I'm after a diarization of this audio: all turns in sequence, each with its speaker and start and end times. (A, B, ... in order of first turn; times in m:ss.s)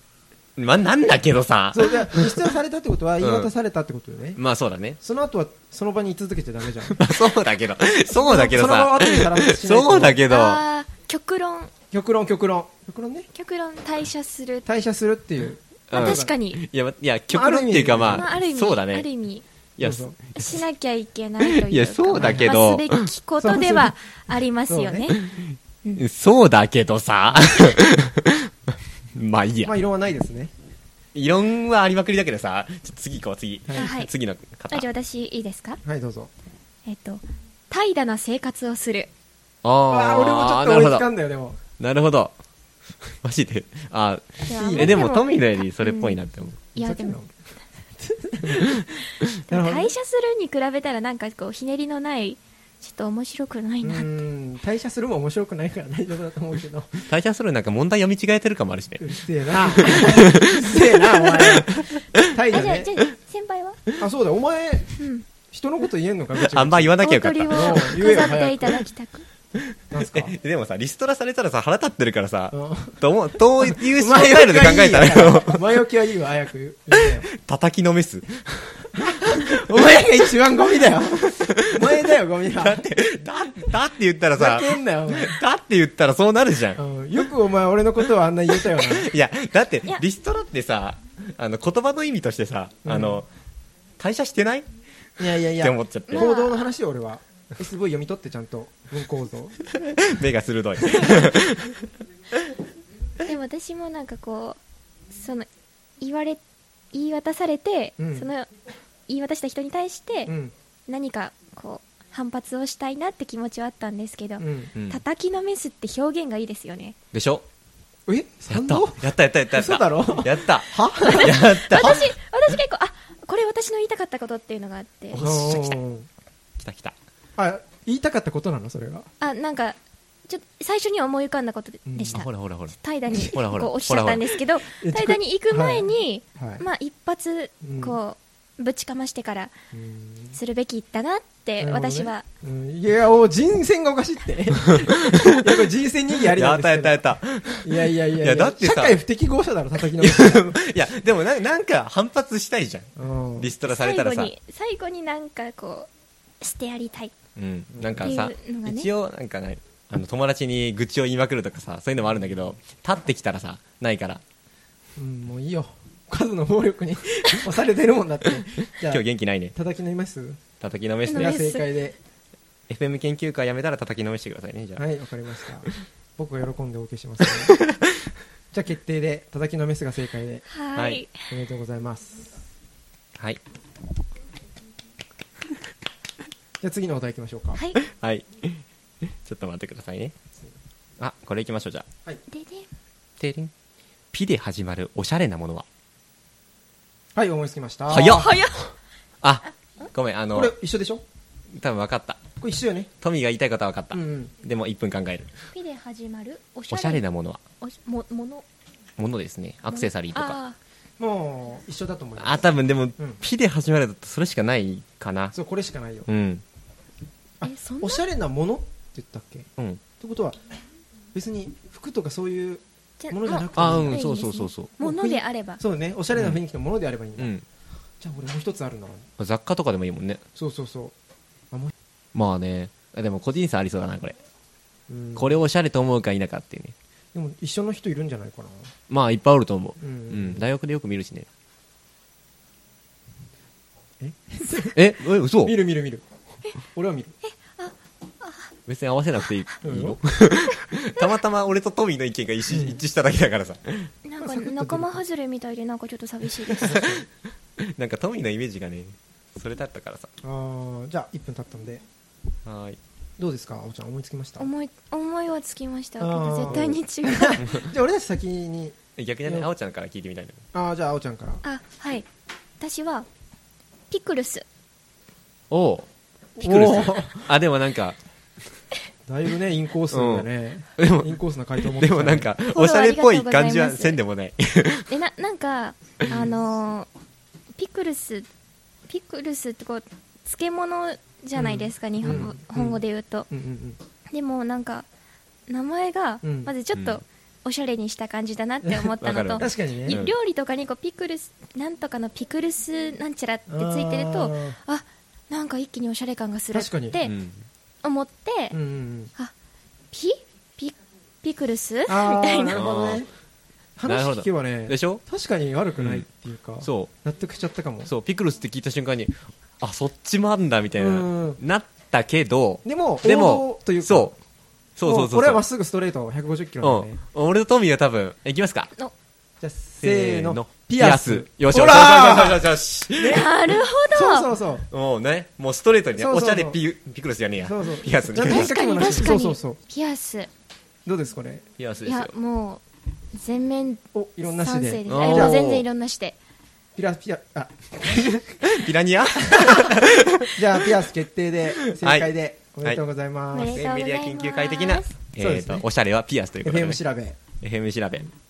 0:00.6-0:02.5 A
0:01.7-0:04.4 B
0:03.2-0:03.5 A
0:04.4-0:05.0 A
0:05.0-0:07.0 B
0:07.0-0:10.6 A
0:08.1-0:10.2 B
0:10.3-0:11.7 C
0:11.9-0:13.3 B
0:13.3-0:14.6 C
0:14.7-0:16.3 B
0:15.9-0:16.6 C
0:15.9-0:19.1 A
0:17.3-0:18.3 B
0:18.1-0:19.4 C
0:19.8-0:20.6 A
0:19.8-0:20.2 B
0:20.3-0:25.2 C
0:21.4-0:23.1 A
0:22.2-0:22.5 B
0:23.4-0:23.9 B
0:24.7-0:25.1 B
0:25.2-0:29.7 A
0:29.6-0:30.5 B
0:31.1-0:34.9 A
0:33.7-0:33.9 B
0:33.8-0:34.1 C
0:34.7-0:35.8 C
0:35.8-0:36.3 B
0:36.9-0:39.1 C
0:39.6-0:41.1 A
0:39.9-0:41.6 B
0:41.8-0:42.3 A
0:43.2-0:46.6 A
0:44.4-0:46.2 C
0:44.5-0:45.0 B
0:46.6-0:47.3 B
0:46.8-0:47.2 C
0:48.0-0:48.9 B
0:48.5-0:48.8 A
0:49.5-0:54.1 C
0:49.5-0:49.9 B
0:53.8-0:57.1 B
0:57.1-1:02.2 A
0:59.0-1:02.9 B
1:02.5-1:03.8 C
1:04.0-1:05.0 B
1:05.0-1:05.3 C
1:05.5-1:08.8 B
1:06.4-1:07.8 A
1:07.0-1:09.2 C
1:09.9-1:10.4 B
1:10.0-1:15.6 A
1:12.5-1:17.3 B
1:16.9-1:18.4 A
1:18.9-1:22.9 B
1:19.2-1:19.8 A
1:21.3-1:22.0 A
1:22.6-1:26.8 A
1:24.4-1:25.4 B
1:26.8-1:29.1 B
1:28.6-1:33.3 A
1:32.8-1:33.2 B
1:34.0-1:34.6 A
1:35.2-1:39.6 B
1:35.6-1:36.3 A
1:36.1-1:36.7 C
1:39.7-1:42.5 A
1:40.8-1:41.3 B
1:43.2-1:44.6 C
1:45.1-1:45.5 C
1:46.0-1:46.4 C
1:46.9-1:48.5 C
1:48.0-1:48.3 B
1:49.1-1:50.3 C
1:50.3-1:50.5 B
1:50.9-1:57.0 C
1:54.4-1:54.7 B
1:54.8-1:55.0 A
1:57.1-1:57.5 A
1:58.1-2:01.4 B
1:58.5-2:02.0 A
2:01.1-2:05.2 C
2:05.1-2:05.8 A
2:05.2-2:06.1 B
2:06.6-2:07.0 A
2:07.4-2:09.1 B
2:09.2-2:19.5 C
2:11.9-2:12.2 B
2:12.1-2:14.4 A
2:14.7-2:16.6 B
2:17.6-2:18.0 B
2:19.7-2:20.4 B
2:20.4-2:22.2 C
2:21.6-2:30.6 B
2:24.7-2:25.6 A
2:26.3-2:29.0 A
2:29.8-2:32.9 A
2:33.0-2:33.5 B
2:33.4-2:34.3 A
2:33.7-2:35.9 C
2:36.4-2:37.1 C
2:37.4-2:44.2 A
2:37.7-2:38.1 B
2:38.0-2:38.9 C
2:45.0-2:50.4 B
2:48.8-2:49.5 A
2:50.6-2:51.4 A
2:51.1-2:51.7 C
2:51.2-2:52.0 B
2:52.7-2:54.8 A
2:54.8-2:57.6 B
2:57.2-2:57.9 A
2:58.5-3:00.4 B
3:00.5-3:01.1 C
3:00.8-3:01.0 A
3:01.3-3:02.4 B
3:06.6-3:07.6 B
3:07.6-3:07.8 C
3:07.8-3:10.2 A
3:11.0-3:11.9 A
3:12.3-3:12.7 C
3:13.2-3:13.5 A
3:14.1-3:15.7 A
3:17.2-3:18.3 B
3:17.9-3:18.5 A
3:18.0-3:18.6 C
3:19.2-3:20.6 A
3:20.3-3:21.0 B
3:21.5-3:22.3 A
3:22.4-3:22.9 B
3:23.0-3:25.3 A
3:23.9-3:24.3 B
3:25.5-3:27.0 C
3:26.7-3:27.4 A
3:27.6-3:28.4 C
3:29.0-3:30.4 A
3:29.7-3:30.6 C
3:31.0-3:33.2 B
3:32.2-3:35.4 A
3:35.3-3:36.1 B
3:36.1-3:36.4 A
3:37.4-3:40.4 B
3:37.4-3:38.0 C
3:41.1-3:44.0 B
3:43.0-3:45.6 C
3:43.5-3:44.7 A
3:44.8-3:47.3 B
3:46.1-3:46.4 A
3:47.2-3:47.4 A
3:48.0-3:49.1 B
3:49.2-3:50.2 A
3:50.4-3:50.9 B
3:52.1-3:54.2 A
3:54.9-3:55.4 B
3:55.2-3:56.8 A
3:57.1-3:58.7 B
3:58.9-4:01.3 A
3:59.8-4:00.4 B
4:04.0-4:06.0 B
4:04.7-4:05.6 A
4:06.7-4:07.2 B
4:07.2-4:08.5 C
4:08.7-4:13.9 A
4:09.6-4:10.0 B
4:12.5-4:12.8 B
4:14.0-4:16.8 C
4:14.2-4:15.0 B
4:16.6-4:17.0 A
4:16.6-4:17.0 B
4:17.6-4:20.1 A
4:20.2-4:21.8 B
4:22.4-4:22.8 A
4:23.2-4:24.5 B
4:24.4-4:27.4 C
4:26.0-4:29.5 B
4:29.0-4:30.4 A
4:30.5-4:31.4 B
4:31.4-4:32.1 C
4:32.6-4:33.1 C
4:33.9-4:34.4 C
4:35.5-4:35.9 A
4:36.4-4:37.3 B
4:36.4-4:38.0 A
4:39.1-4:42.3 B
4:39.9-4:41.2 A
4:41.8-4:44.9 A
4:42.5-4:44.0 C
4:44.9-4:46.9 C
4:47.6-4:48.3 C
4:48.9-4:53.3 C
4:51.4-4:53.8 B
4:52.0-4:52.3 A
4:54.1-4:54.9 C
4:55.5-5:07.1 C
4:56.2-4:56.5 B
4:56.7-4:57.0 A
4:59.0-5:00.1 A
4:59.4-5:00.0 B
5:03.5-5:04.6 B
5:06.5-5:07.0 B
5:07.0-5:07.5 A
5:07.8-5:08.6 C
5:08.5-5:09.1 B
5:09.9-5:12.7 C
5:11.9-5:13.1 B
5:12.5-5:13.0 A
5:13.8-5:17.9 B
5:13.9-5:15.0 A
5:15.8-5:16.0 A
5:16.6-5:16.9 A
5:17.9-5:24.2 A
5:20.8-5:21.4 B
5:22.6-5:24.1 B
5:24.8-5:25.4 A
5:24.8-5:27.0 B
5:26.6-5:28.7 A
5:29.4-5:33.3 B
5:29.8-5:33.3 A
5:33.0-5:34.3 C
5:33.9-5:34.7 B
5:34.7-5:38.6 A
5:36.0-5:36.6 B
5:37.4-5:39.6 B
5:38.2-5:40.3 C
5:40.9-5:41.5 B
5:41.6-5:42.1 A
5:41.8-5:42.6 C
5:43.1-5:46.2 C
5:43.9-5:45.4 B
5:44.9-5:45.6 A
5:46.8-5:48.2 B
5:47.8-5:50.9 A
5:49.2-5:49.7 B
5:50.4-5:53.6 B
5:51.7-5:52.1 A
5:53.3-5:54.9 C
5:53.4-5:56.8 A
5:55.2-5:55.6 B
5:56.4-5:57.2 B
5:57.4-5:58.1 A